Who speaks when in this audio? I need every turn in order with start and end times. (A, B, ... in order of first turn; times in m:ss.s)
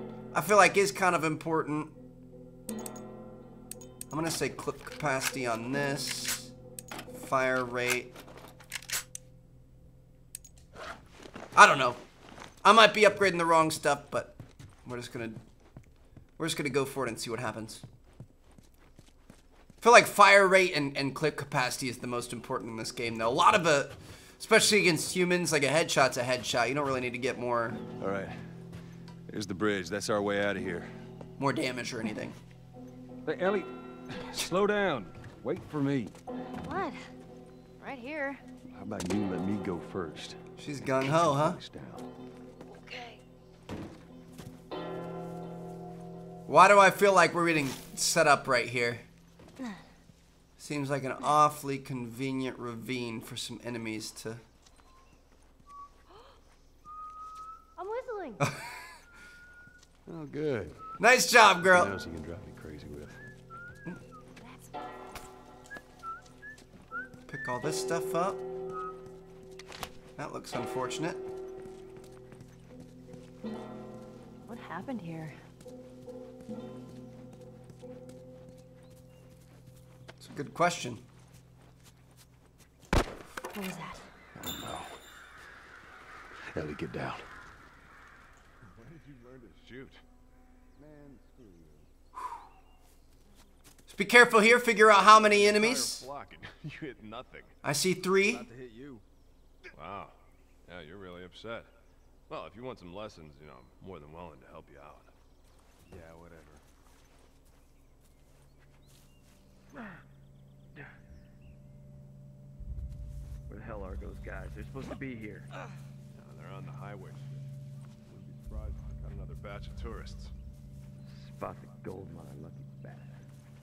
0:00.3-0:01.9 A
0:04.1-0:06.5 A
0:07.1-0:08.2 A
0:11.6-0:12.0 A
0:12.6-0:15.4 A
0:16.4-0:17.8 A
0:19.8-0:27.8 A
0:28.0-0:28.4 B
0:29.3-0:30.9 B
0:31.4-0:32.4 A
0:33.2-0:36.2 B
0:36.6-0:37.0 C
0:37.8-0:38.4 C
0:38.7-0:40.4 B
0:40.6-0:41.6 A
0:41.0-0:42.1 B
0:42.7-0:43.2 C
0:46.5-0:49.0 A
0:50.6-0:54.4 A
0:57.8-0:58.5 C
0:58.4-0:58.7 A
1:00.1-1:00.8 B
1:01.0-1:01.9 A
1:01.6-1:03.2 B
1:04.4-1:04.9 C
1:07.3-1:08.4 A
1:10.2-1:11.2 A
1:14.5-1:15.4 C
1:20.2-1:21.0 A
1:23.5-1:24.1 C
1:24.4-1:25.0 B
1:26.5-1:27.3 B
1:28.8-1:30.0 D
1:33.9-1:36.1 A
1:35.0-1:37.6 D
1:37.6-1:38.4 A
1:38.3-1:39.0 D
1:39.7-1:41.7 D
1:42.3-1:45.1 D
1:45.9-1:46.6 D
1:53.5-1:55.5 E
1:56.1-1:57.4 D
1:58.1-2:00.3 D
2:01.1-2:03.2 E